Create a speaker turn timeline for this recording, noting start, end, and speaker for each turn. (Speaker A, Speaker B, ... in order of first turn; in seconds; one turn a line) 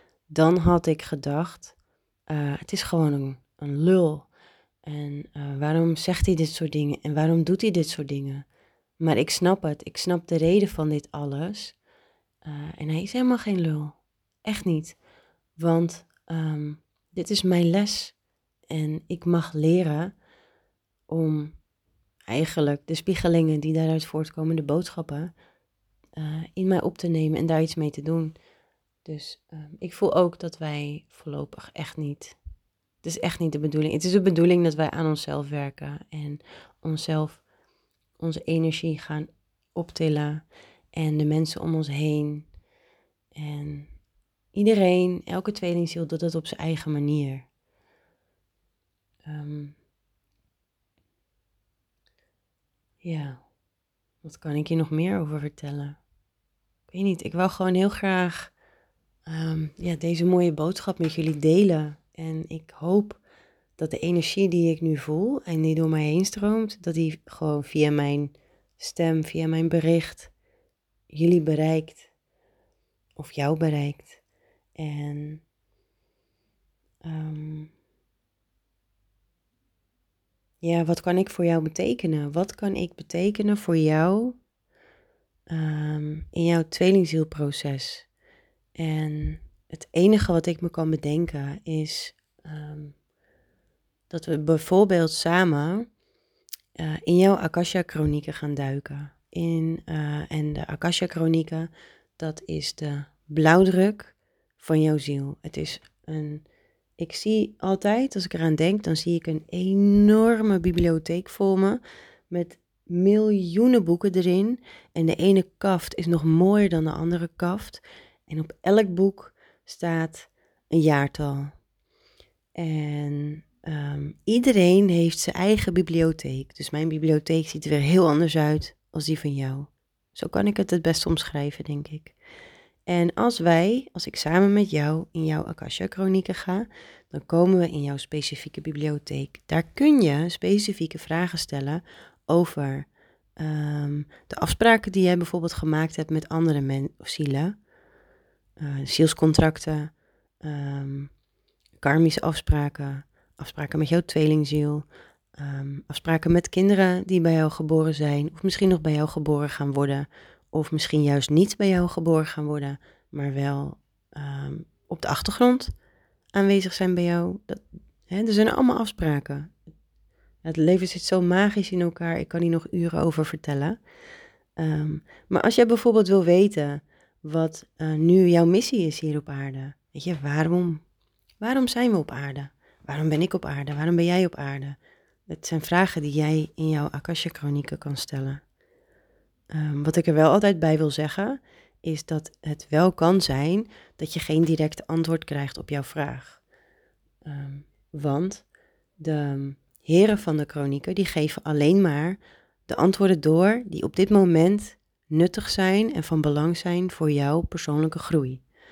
Speaker A: 0.3-1.7
Speaker A: 2.3-4.3
Speaker A: 4.8-8.4
Speaker A: 9.0-11.8
Speaker A: 12.4-15.0
Speaker A: 15.6-18.1
Speaker A: 18.7-20.1
Speaker A: 21.1-21.6
Speaker A: 22.3-25.3
Speaker A: 26.1-28.3
Speaker A: 29.0-32.4
Speaker A: 33.0-37.4
Speaker A: 38.2-42.5
Speaker A: 43.3-43.9
Speaker A: 44.5-47.5
Speaker A: 49.2-49.7
Speaker A: 53.0-53.4
Speaker A: 54.2-56.0
Speaker A: 56.9-58.5
Speaker A: 59.2-63.2
Speaker A: 63.8-70.3
Speaker A: 71.1-72.1
Speaker A: 73.2-74.2
Speaker A: 74.8-75.4
Speaker A: 77.0-77.7
Speaker A: 80.6-84.4
Speaker A: 85.5-88.1
Speaker A: 88.8-92.9
Speaker A: 94.1-95.9
Speaker A: 96.8-106.4
Speaker A: 107.0-121.5
Speaker A: 122.5-132.1
Speaker A: 132.9-147.6
Speaker A: 148.6-151.1
Speaker A: 151.8-154.8
Speaker A: 155.4-165.7
Speaker A: 166.3-169.5
Speaker A: 170.4-173.8
Speaker A: 174.6-180.8
Speaker A: 181.4-184.8
Speaker A: 185.3-188.4
Speaker A: 189.5-196.4
Speaker A: 197.2-198.4
Speaker A: 199.0-208.4